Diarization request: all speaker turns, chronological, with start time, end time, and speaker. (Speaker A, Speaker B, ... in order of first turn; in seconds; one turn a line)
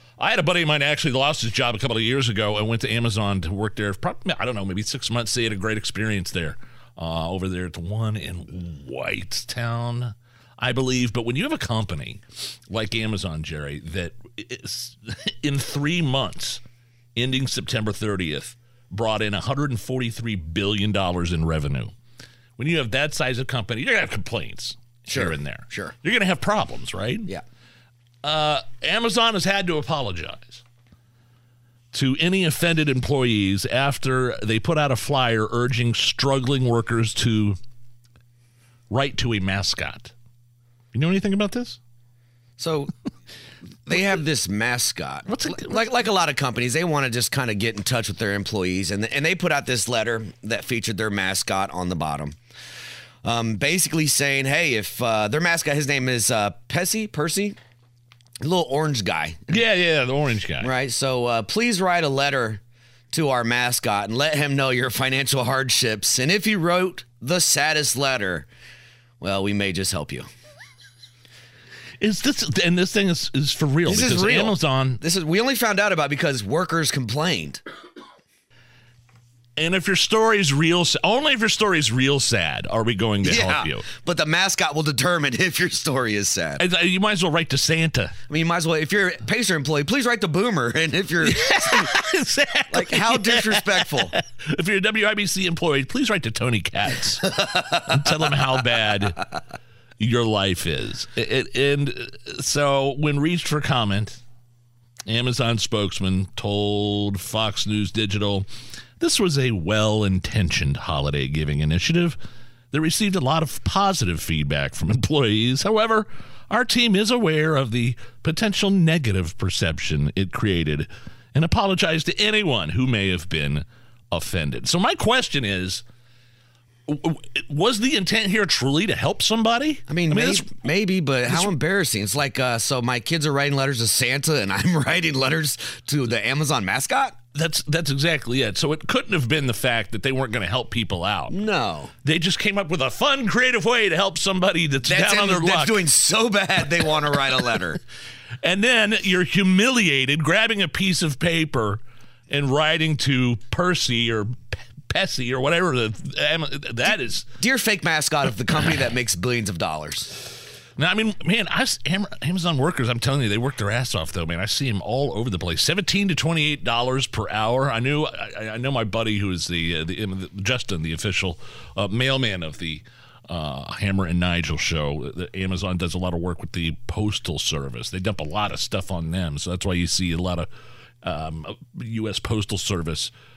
Speaker A: 0.2-16.6
Speaker A: 17.1-21.9
Speaker A: 22.6-27.3
Speaker B: 25.1-25.9
Speaker A: 28.2-30.6
Speaker A: 31.9-37.6
Speaker A: 38.9-40.1
Speaker A: 40.9-41.8
Speaker B: 42.6-42.9
Speaker B: 43.9-52.4
Speaker A: 45.3-45.9
Speaker B: 53.2-57.6
Speaker B: 58.4-59.6
Speaker A: 59.5-60.7
Speaker B: 60.6-62.6
Speaker B: 63.1-68.5
Speaker B: 69.2-70.3
Speaker A: 72.0-75.0
Speaker B: 73.9-77.6
Speaker A: 79.6-83.8
Speaker B: 83.2-86.6
Speaker A: 86.6-88.2
Speaker B: 88.3-92.0
Speaker A: 91.2-99.2
Speaker B: 92.7-94.1
Speaker A: 100.0-104.2
Speaker A: 105.1-108.5
Speaker A: 109.0-112.2
Speaker A: 112.7-125.8
Speaker A: 126.9-130.5
Speaker B: 129.9-137.2
Speaker A: 131.3-131.5
Speaker A: 137.3-141.4
Speaker B: 141.3-141.9
Speaker A: 142.0-145.8
Speaker B: 144.8-147.8
Speaker A: 148.4-157.3
Speaker B: 157.4-160.2
Speaker A: 160.8-180.5
Speaker A: 181.0-183.1